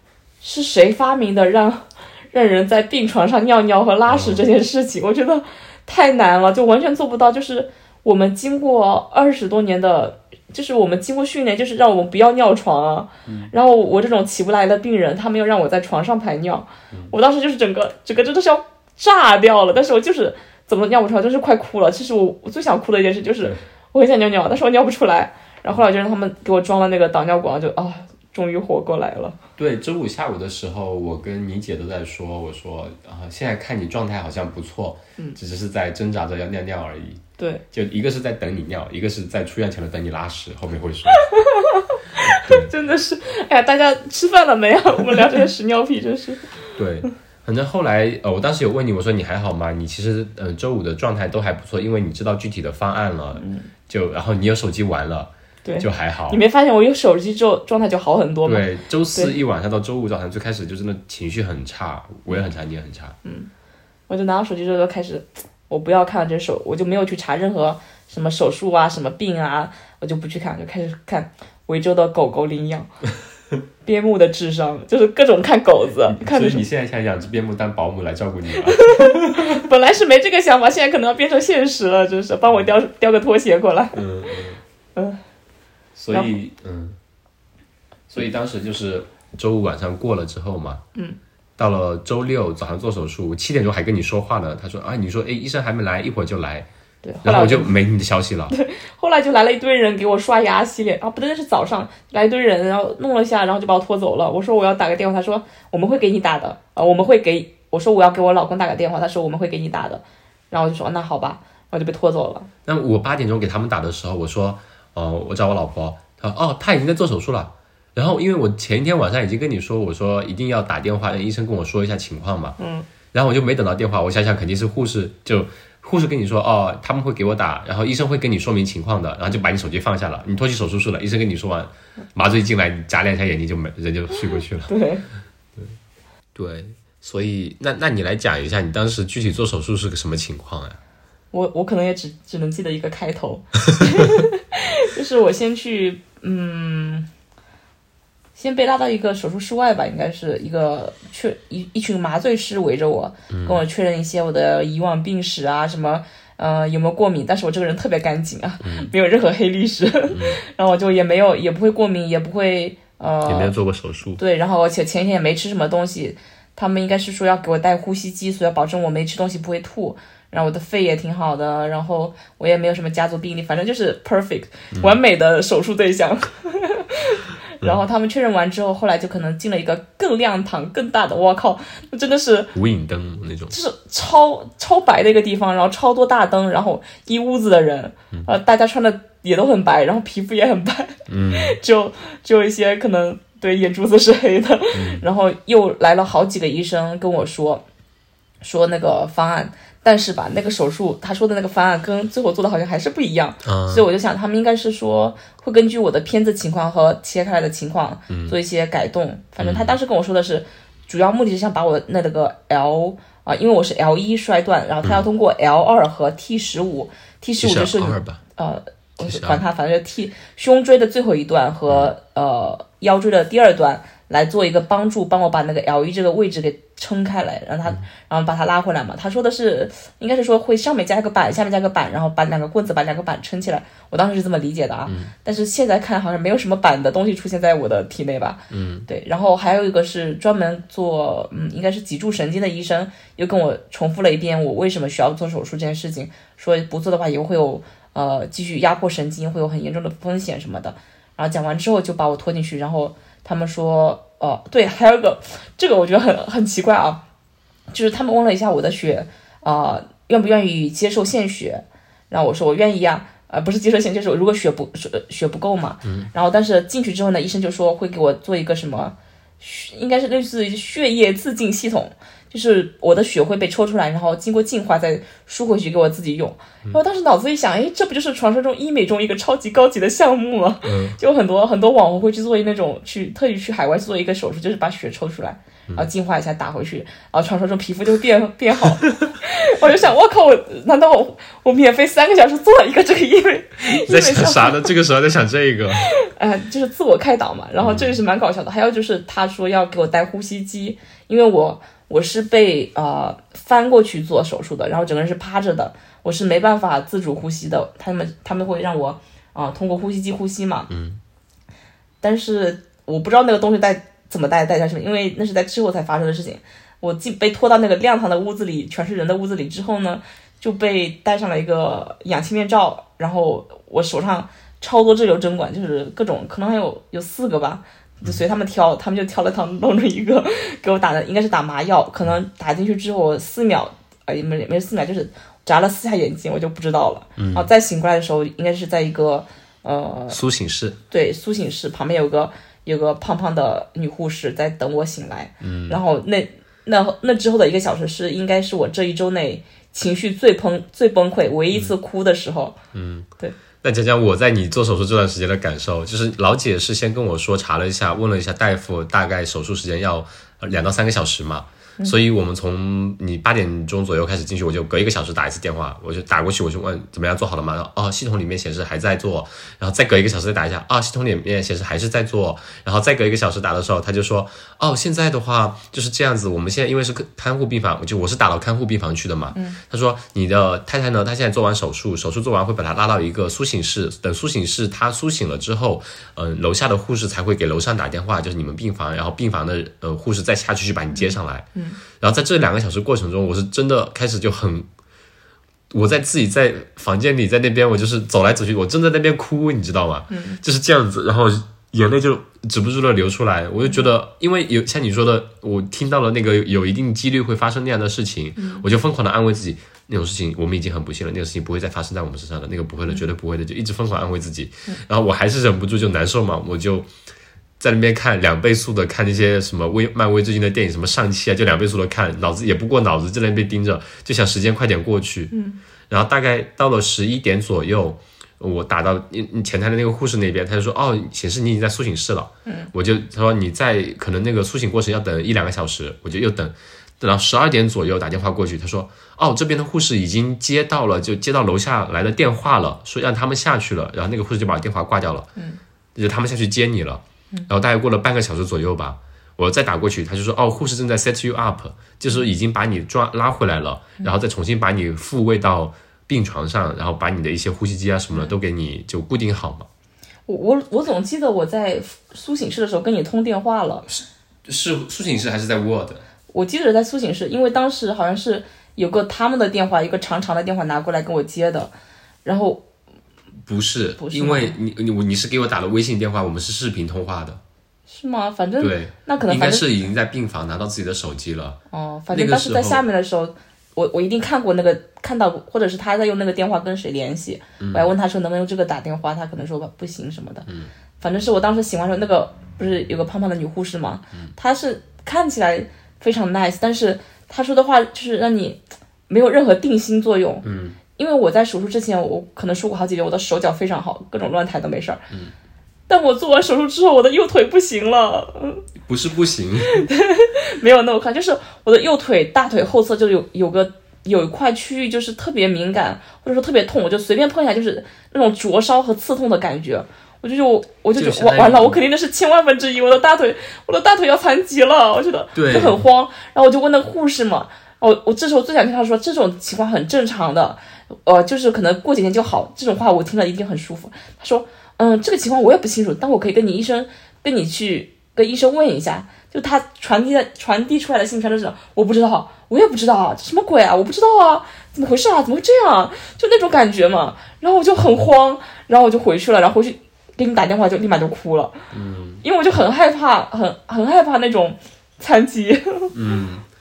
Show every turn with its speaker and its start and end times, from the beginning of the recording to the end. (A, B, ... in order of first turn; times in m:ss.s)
0:00.4-0:29.4 A
0:04.1-0:04.4 B
0:13.2-0:13.5 B
0:29.6-0:41.2 B
0:41.2-0:46.5 A
0:42.3-0:42.7 B
0:46.8-0:56.4 B
0:53.4-0:53.7 A
0:55.6-0:59.3 A
0:58.4-1:03.2 B
1:03.2-1:03.5 A
1:04.1-1:12.9 A
1:13.8-1:16.6 A
1:16.1-1:19.6 B
1:18.7-1:24.0 A
1:23.9-1:24.6 B
1:26.0-1:27.0 B
1:28.1-1:30.8 B
1:31.6-1:36.7 B
1:37.0-1:37.7 A
1:37.2-1:38.5 B
1:38.5-1:52.5 A
1:52.6-2:02.6 B
2:02.6-2:02.9 A
2:03.1-2:14.7 B
2:14.7-2:15.0 A
2:16.3-2:20.8 B
2:21.3-2:27.1 A
2:28.3-2:43.5 A
2:33.3-2:33.6 B
2:38.6-2:38.9 B
2:40.1-2:40.4 B
2:43.2-2:44.2 B
2:44.2-3:02.5 A
3:02.5-3:03.5 B
3:03.5-3:17.6 A
3:11.1-3:11.6 B
3:14.7-3:15.0 B
3:18.4-4:17.0 A
3:23.4-3:23.8 B
3:28.1-3:28.4 B
3:29.4-3:29.8 B
3:37.4-3:38.2 B
3:39.0-3:39.4 B
3:54.8-3:55.1 B
3:58.5-3:58.9 B
4:17.7-4:54.7 A
4:25.8-4:26.1 B
4:40.6-4:41.0 B
4:53.6-4:55.9 B
4:55.8-5:10.7 A
4:57.6-4:58.0 B
5:10.7-5:11.0 B
5:12.0-5:40.2 A
5:37.2-5:37.5 B
5:40.1-5:40.8 B
5:40.9-5:52.6 A
5:45.4-5:45.8 B
5:52.7-5:53.1 B
5:53.6-6:31.5 B
6:19.3-6:19.6 A
6:30.9-6:31.8 A
6:32.0-6:34.7 B
6:35.7-6:56.9 B
6:40.1-6:40.4 A
6:48.4-6:48.6 A
6:57.6-7:05.3 B
7:05.3-7:05.6 A
7:05.9-7:25.3 B
7:12.4-7:12.7 A
7:25.9-7:39.7 B
7:40.3-7:43.8 A
7:43.8-7:46.0 B
7:46.3-7:51.7 A
7:52.2-7:52.6 A
7:53.4-7:57.4 B
7:54.0-7:54.5 A
7:57.9-7:59.7 A
7:58.6-8:01.6 B
8:01.7-8:10.5 A
8:02.1-8:02.8 B
8:07.6-8:07.9 B
8:11.0-8:20.4 A
8:20.4-8:20.8 B
8:20.9-8:25.0 A
8:25.9-8:28.6 A
8:28.8-8:29.8 B
8:29.7-9:11.5 A
8:41.0-8:41.8 B
8:45.3-8:45.8 B
9:11.7-9:12.2 B
9:12.2-9:15.9 A
9:15.9-9:16.4 B